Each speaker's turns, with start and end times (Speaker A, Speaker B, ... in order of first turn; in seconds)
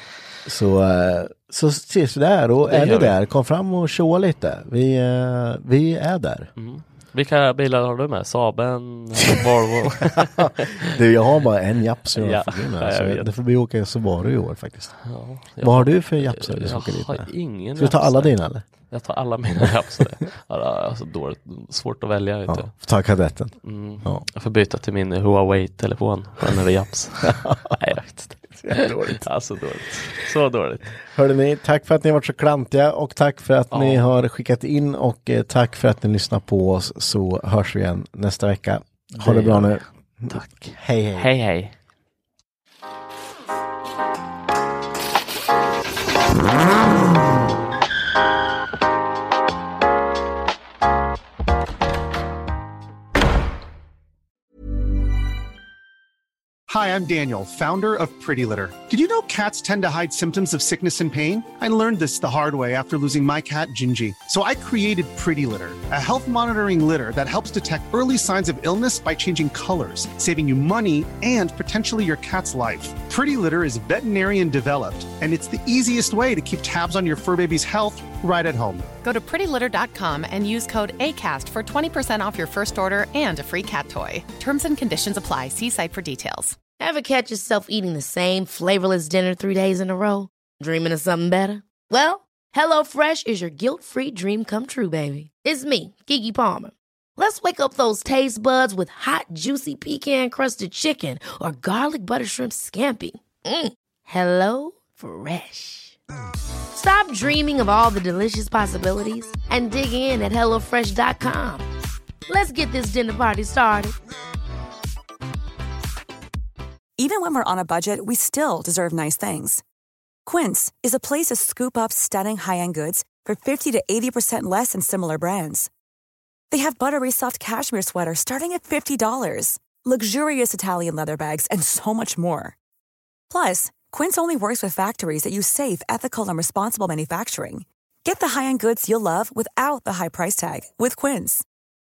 Speaker A: 0.5-6.5, 9.3-14.9, 15.6-18.6, 19.6-20.1, 22.5-24.2, 27.3-27.8, 28.6-29.3, 31.1-41.3
Speaker B: 2.7-3.1, 6.6-11.0, 12.2-13.3, 15.1-18.4, 18.9-22.7, 23.6-30.9, 33.7-34.1, 39.2-39.8, 40.3-41.8
Speaker C: 56.7-78.9
Speaker D: 79.0-86.6
Speaker E: 86.8-106.0, 106.7-111.7, 112.3-114.0
Speaker F: 117.0-119.6, 120.2-125.7, 126.5-132.6, 133.3-141.4